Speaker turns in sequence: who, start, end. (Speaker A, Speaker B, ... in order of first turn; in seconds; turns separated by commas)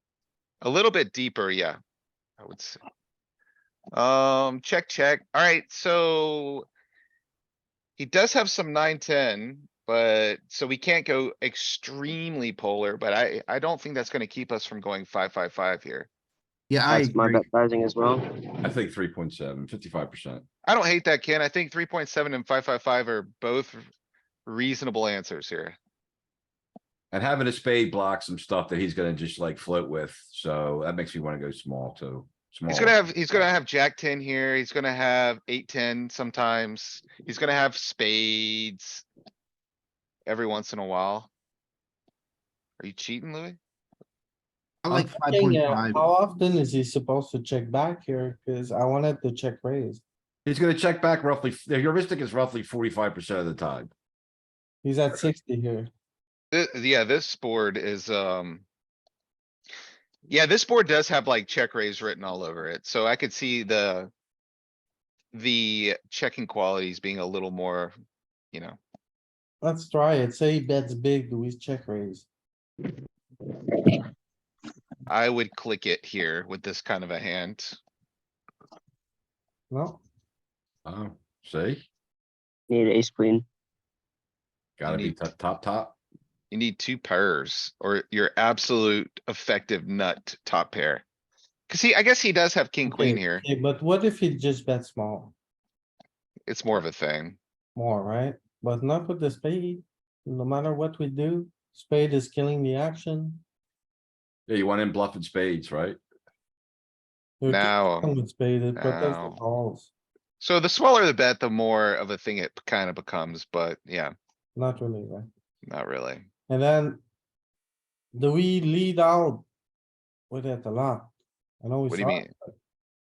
Speaker A: 0.6-1.8, Speaker A: 2.4-2.8, Speaker A: 3.9-6.7, Speaker A: 8.0-16.1, Speaker B: 16.7-17.5, Speaker C: 16.9-18.2, Speaker D: 18.6-20.4, Speaker A: 20.6-23.8, Speaker A: 24.4-25.8, Speaker D: 27.1-33.0, Speaker A: 32.7-39.0, Speaker A: 40.2-41.3, Speaker A: 42.8-43.6, Speaker B: 44.8-46.1, Speaker E: 44.9-50.0, Speaker D: 50.4-53.9, Speaker E: 54.8-55.9, Speaker A: 56.5-58.6, Speaker A: 60.3-64.1, Speaker A: 65.3-67.9, Speaker A: 68.5-68.8, Speaker E: 69.6-72.3, Speaker A: 75.1-77.8, Speaker E: 79.7-80.0, Speaker D: 80.8-81.8, Speaker C: 82.7-83.4, Speaker D: 84.8-86.0, Speaker A: 84.8-85.2, Speaker A: 86.5-91.0, Speaker A: 91.7-93.4, Speaker E: 92.8-95.3, Speaker A: 96.5-97.4, Speaker E: 97.7-103.4, Speaker D: 104.5-106.0, Speaker E: 107.4-109.9, Speaker A: 107.4-108.2, Speaker A: 108.7-109.4, Speaker A: 110.4-114.1, Speaker E: 114.5-115.3, Speaker A: 115.7-116.2, Speaker E: 116.5-117.0, Speaker E: 118.1-119.5, Speaker E: 120.3-122.3, Speaker A: 121.9-122.3